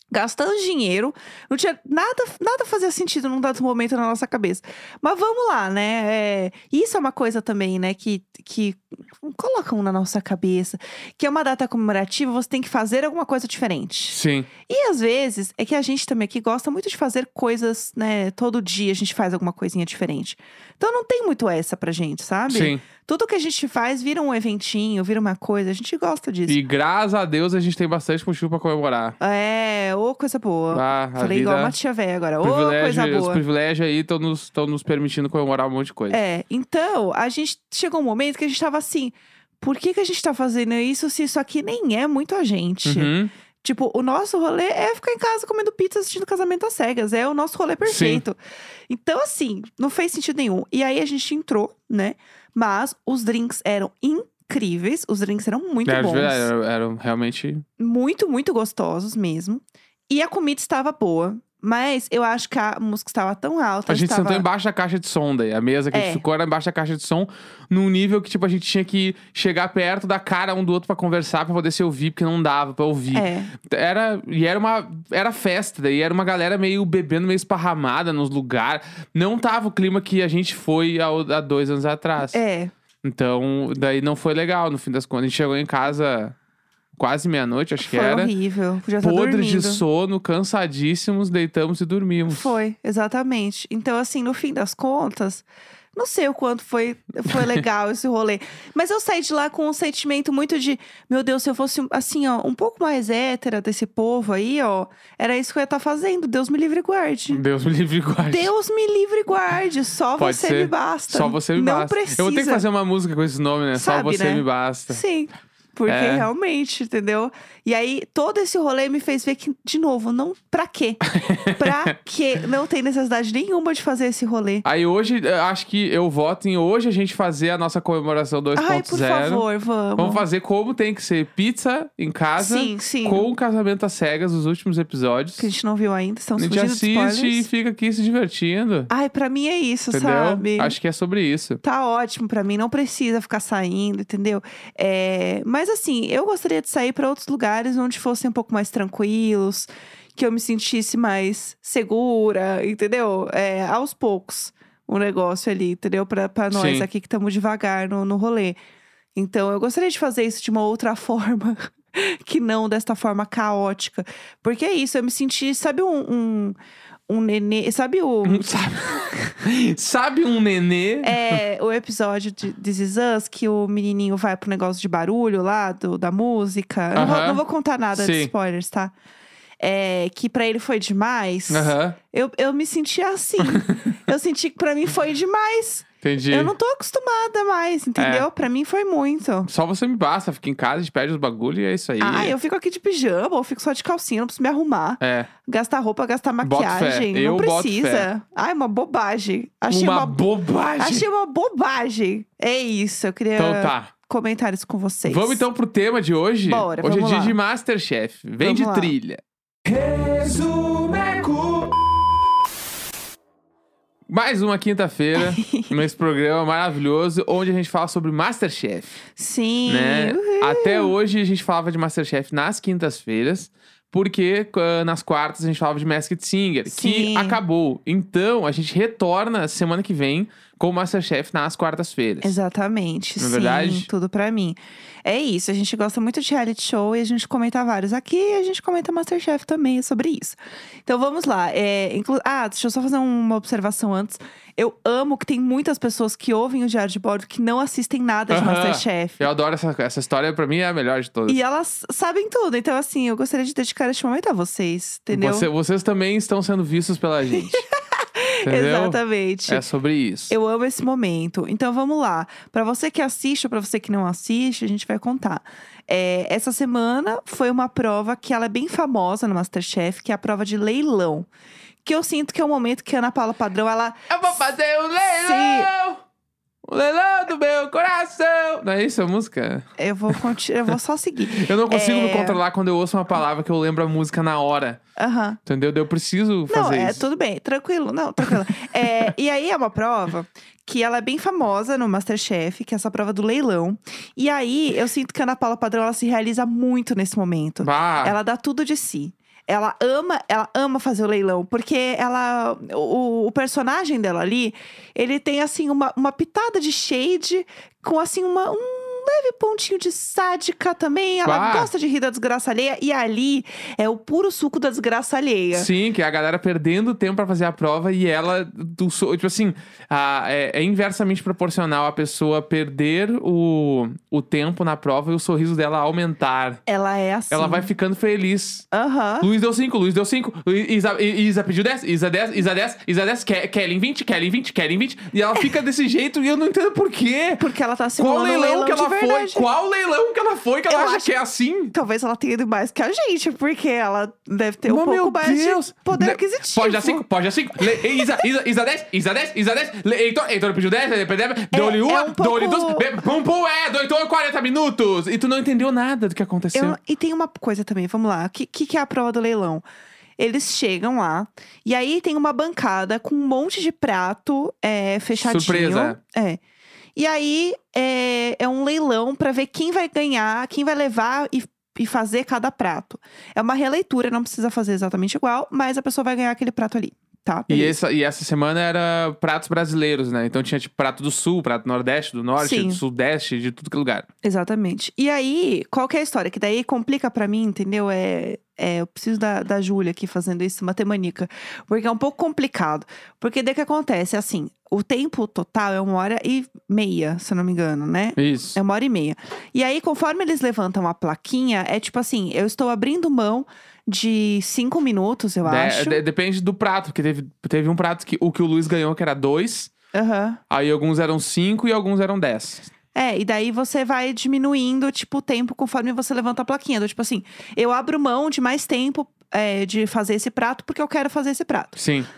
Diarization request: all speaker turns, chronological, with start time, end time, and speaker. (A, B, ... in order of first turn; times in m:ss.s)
0:00.1-0:26.6 A
0:14.1-0:14.5 B
0:22.5-0:22.8 B
0:26.5-0:29.2 B
0:29.2-0:33.4 A
0:30.7-0:31.8 B
0:32.4-0:36.2 B
0:36.1-0:43.1 A
0:42.8-0:43.3 B
0:43.6-0:48.4 A
0:47.8-0:48.2 B
0:48.9-0:56.5 A
0:55.9-0:57.6 B
0:57.8-1:04.5 A
1:03.9-1:22.4 B
1:05.9-1:06.2 A
1:13.1-1:13.5 A
1:22.3-1:22.7 A
1:23.0-1:26.4 B
1:27.0-1:28.3 B
1:27.8-1:29.8 A
1:29.0-1:32.5 B
1:32.3-1:47.4 A
1:37.3-1:37.6 B
1:47.3-1:48.5 B
1:48.3-1:52.6 A
1:50.2-1:55.0 B
1:53.8-2:04.6 A
1:55.9-1:56.3 B
2:01.1-2:01.9 B
2:04.6-2:09.4 B
2:08.6-2:10.2 A
2:10.0-2:15.5 B
2:12.4-2:13.3 A
2:15.4-2:17.5 A
2:16.4-2:18.9 B
2:18.9-2:20.8 A
2:19.9-2:21.6 B
2:21.6-2:38.6 A
2:36.5-2:36.9 B
2:39.2-2:46.6 A
2:47.1-2:48.6 A
2:48.2-2:51.4 B
2:51.0-2:58.9 A
2:57.0-2:57.4 B
2:57.9-2:58.3 B
2:59.6-3:09.5 A
3:01.5-3:02.0 B
3:03.4-3:03.8 B
3:06.0-3:06.5 B
3:08.0-3:08.3 B
3:09.5-3:12.4 B
3:12.0-3:20.3 A
3:15.0-3:15.3 B
3:16.4-3:18.1 B
3:19.7-3:21.1 B
3:20.8-3:25.4 A
3:23.4-3:23.9 B
3:25.0-3:32.0 B
3:26.5-3:27.4 A
3:28.4-3:28.9 A
3:34.1-3:39.0 B
3:35.2-3:35.8 A
3:39.2-3:40.9 A
3:39.7-3:52.4 B
3:46.7-3:47.4 A
3:52.2-4:09.2 A
3:53.2-3:53.9 B
4:08.3-4:11.4 B
4:11.3-4:15.5 A
4:15.1-4:17.6 B
4:17.3-4:19.6 A
4:18.4-4:20.3 B
4:20.3-4:31.3 A
4:31.8-4:34.1 A
4:34.1-4:36.0 B
4:35.0-4:35.7 A
4:36.6-4:40.2 B
4:39.8-4:42.4 A
4:41.3-4:44.8 B
4:45.0-4:45.4 A
4:45.5-4:47.0 B
4:46.5-5:15.7 A
4:48.3-4:49.1 B
4:57.6-4:58.2 B
5:11.2-5:11.7 B
5:15.5-5:26.6 B
5:26.7-5:27.7 A
5:27.3-5:28.7 B
5:28.7-5:29.3 A
5:29.2-5:37.4 B
5:37.4-5:39.5 A
5:38.0-5:41.7 B
5:40.7-5:41.1 A
5:41.7-5:47.0 A
5:44.7-5:56.8 B
5:47.6-5:48.1 A
5:51.5-5:53.0 A
5:56.5-5:59.6 A
6:00.2-6:06.4 A
6:05.2-6:06.0 B
6:07.0-6:17.8 A
6:17.5-6:24.1 B
6:22.4-6:22.8 A
6:24.2-6:46.0 A
6:38.2-6:38.6 B
6:45.4-6:49.7 B
6:49.9-6:50.4 A
6:50.5-6:52.7 B
6:53.0-7:01.8 A
7:01.8-7:02.1 B